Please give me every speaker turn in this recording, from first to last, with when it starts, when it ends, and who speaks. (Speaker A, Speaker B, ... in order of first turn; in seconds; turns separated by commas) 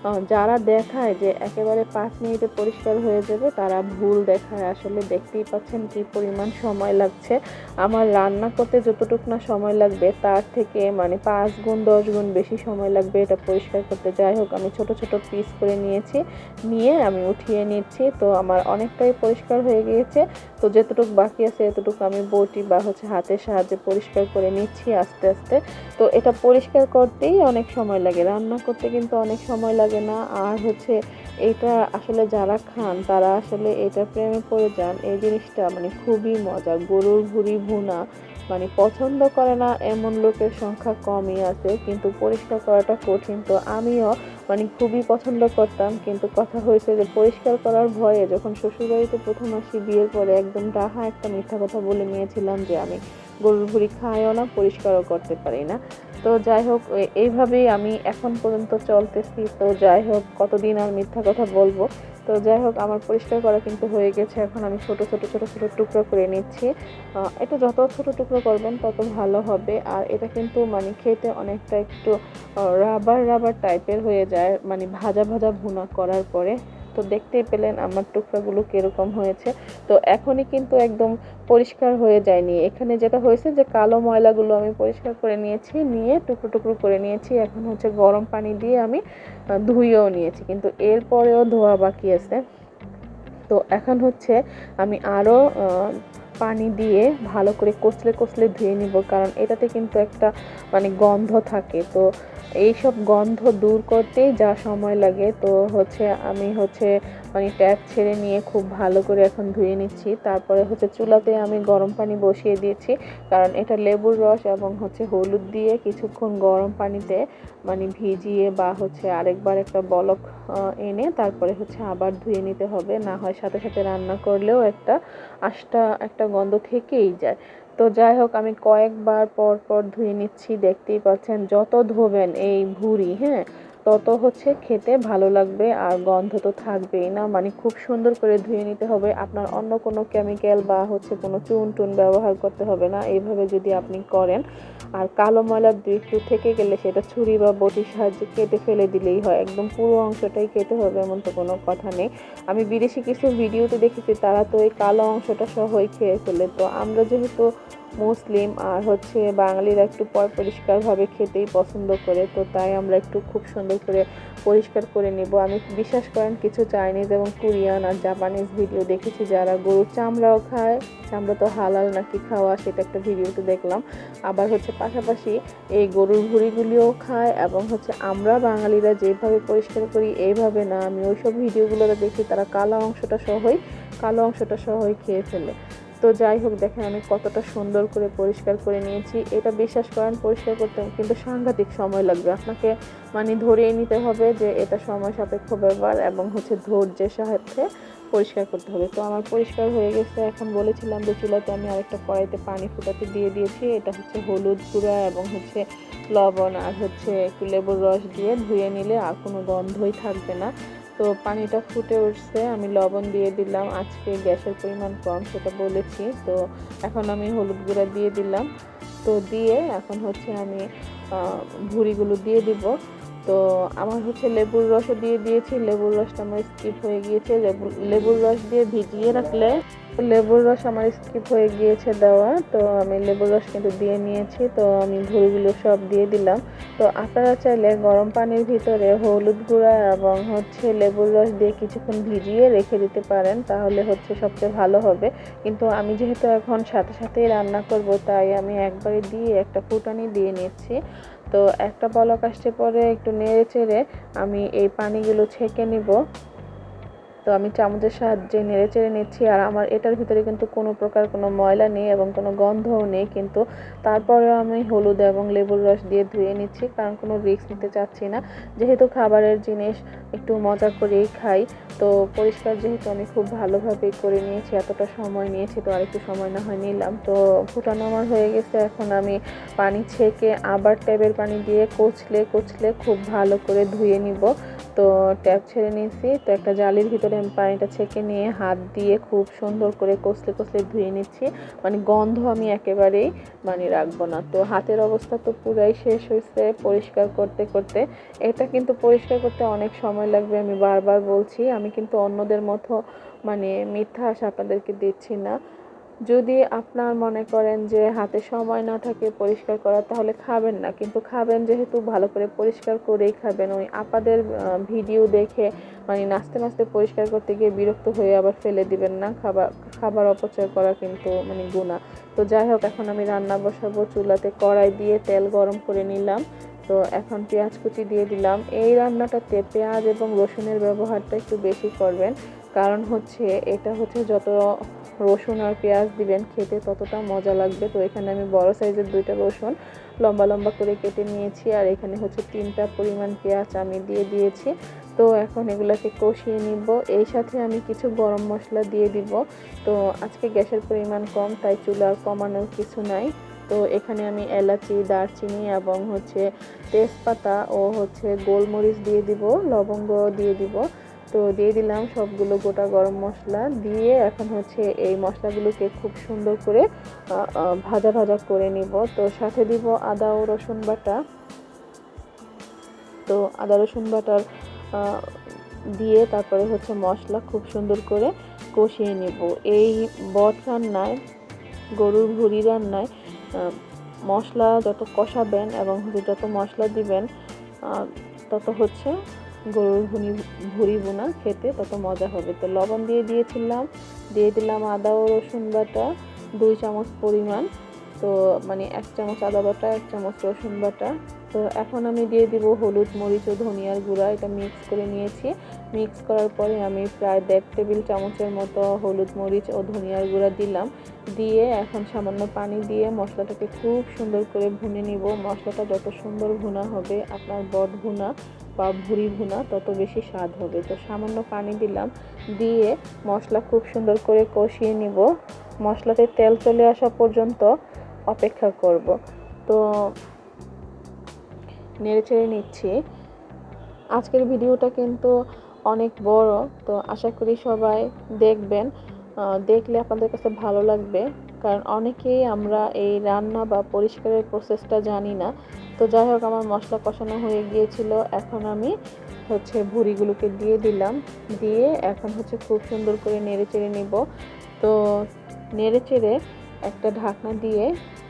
Speaker A: 0.3-38.0, Speaker A: 38.5-66.7, Speaker A: 67.3-89.0, Speaker A: 89.7-92.4, Speaker A: 93.5-95.9, Speaker A: 96.4-102.0, Speaker A: 102.6-120.2, Speaker A: 120.8-125.0, Speaker A: 125.5-144.4, Speaker A: 145.0-157.5, Speaker A: 158.0-205.6, Speaker A: 206.1-218.5, Speaker A: 219.0-222.7, Speaker A: 223.2-250.8, Speaker A: 251.3-255.9, Speaker A: 257.3-302.7, Speaker A: 303.3-305.3, Speaker A: 306.1-334.4, Speaker A: 335.1-366.6, Speaker A: 367.1-371.0, Speaker A: 373.1-374.2, Speaker A: 374.7-375.1, Speaker A: 375.8-381.0, Speaker A: 381.8-383.6, Speaker A: 384.1-387.1, Speaker A: 387.6-388.9, Speaker A: 389.5-397.5, Speaker A: 398.0-425.1, Speaker A: 425.6-427.5, Speaker A: 428.1-428.9, Speaker A: 431.8-432.7, Speaker A: 434.0-435.1, Speaker A: 435.7-438.7, Speaker A: 439.5-448.7, Speaker A: 449.3-454.0, Speaker A: 455.6-456.1, Speaker A: 456.7-457.7